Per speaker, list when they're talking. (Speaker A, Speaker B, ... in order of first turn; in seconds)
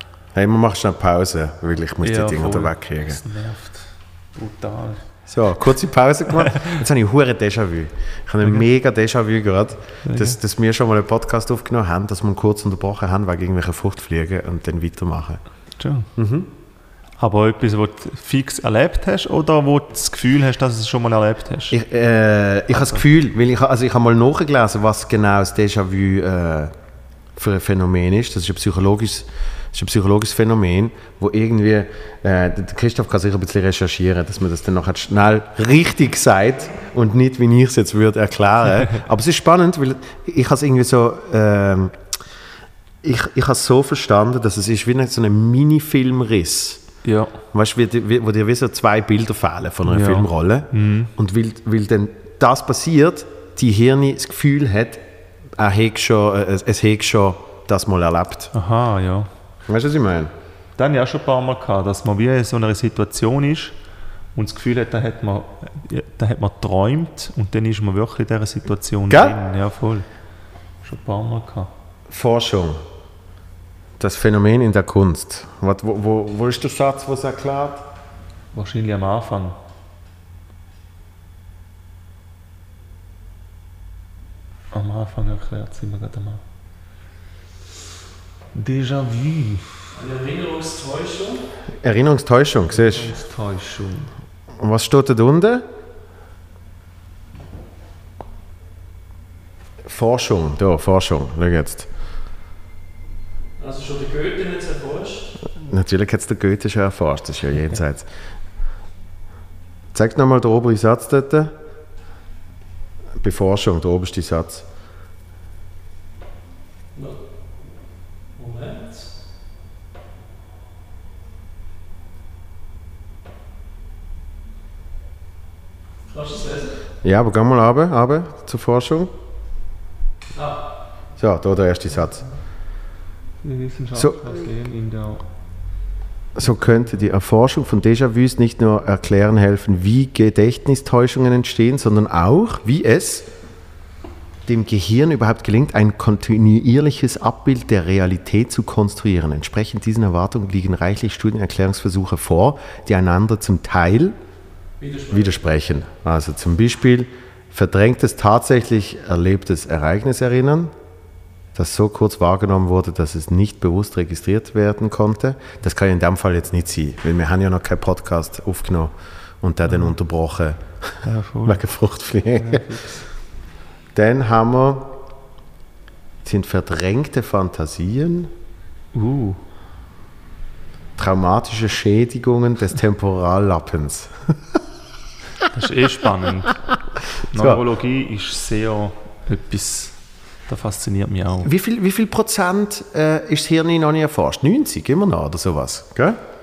Speaker A: 0.3-3.2, 5.3-15.4, 16.1-16.5, 21.7-26.7, 27.4-42.0, 43.0-46.8, 47.5-55.0, 55.6-58.5, 59.7-60.3, 69.1-69.3, 72.1-72.8, 74.0-77.8, 91.8-93.1, 94.6-95.6, 99.8-101.9, 105.4-108.1, 109.9-111.5, 113.2-114.6, 127.0-129.1, 131.2-132.2, 133.9-134.2, 136.3-143.3, 144.5-154.1, 155.1-160.7, 161.6-172.7, 173.9-174.9, 176.2-178.3, 181.0-184.3, 187.2-187.6, 191.4-196.2
Speaker B: 2.0-5.0, 8.4-8.7, 10.0-10.4, 15.8-16.1, 17.2-21.7, 22.7-23.0, 47.0-47.3, 49.9-51.1, 58.5-59.3, 60.8-63.8, 64.3-70.1, 70.8-71.7, 78.5-79.6, 84.7-86.4, 88.5-89.9, 92.7-94.1, 133.4-135.2, 169.7-169.9, 171.0-171.6, 172.3-173.1, 178.9-179.4, 185.5-186.6, 187.3-191.5
Speaker C: 89.9-91.5, 103.6-105.4, 116.9-117.2, 118.3-119.1, 126.1-126.8, 130.3-130.6, 154.8-155.4